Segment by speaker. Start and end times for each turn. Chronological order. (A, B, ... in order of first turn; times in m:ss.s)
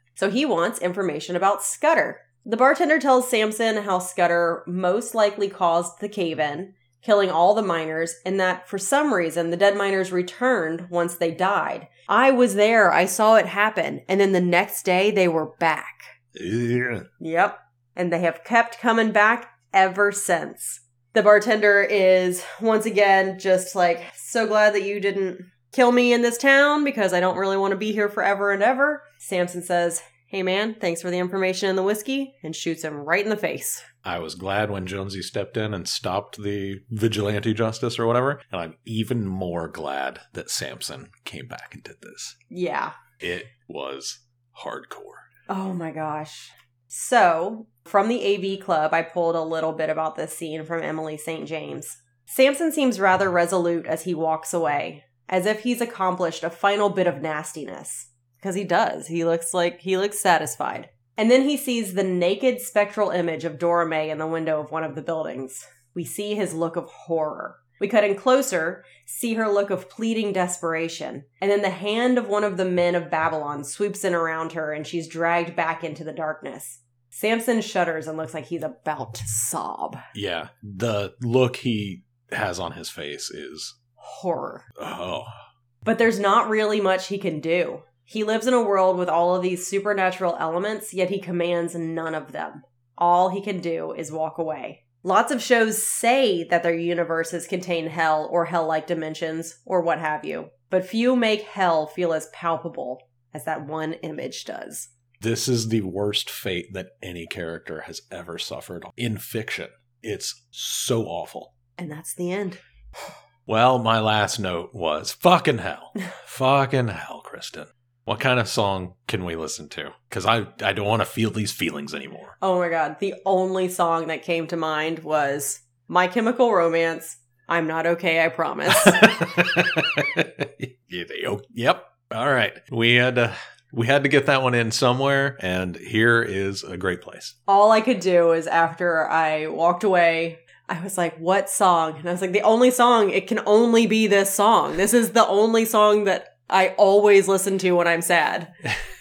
0:00.2-0:16.2 A
0:16.3-0:17.1 B
0:17.2-0:33.9 A
0:34.0-0:42.4 B
0:42.5-0:43.0 A
0:43.2-0:45.2 B
0:45.5-1:20.1 A
1:20.1-1:23.8 B
1:24.0-1:24.6 A
1:24.8-1:25.3 B
1:25.8-1:44.9 A
1:45.2-1:51.5 B
1:51.8-1:52.6 A
1:53.5-2:02.4 B
2:02.4-2:09.4 A
2:08.7-2:17.4 B
2:17.5-2:28.5 A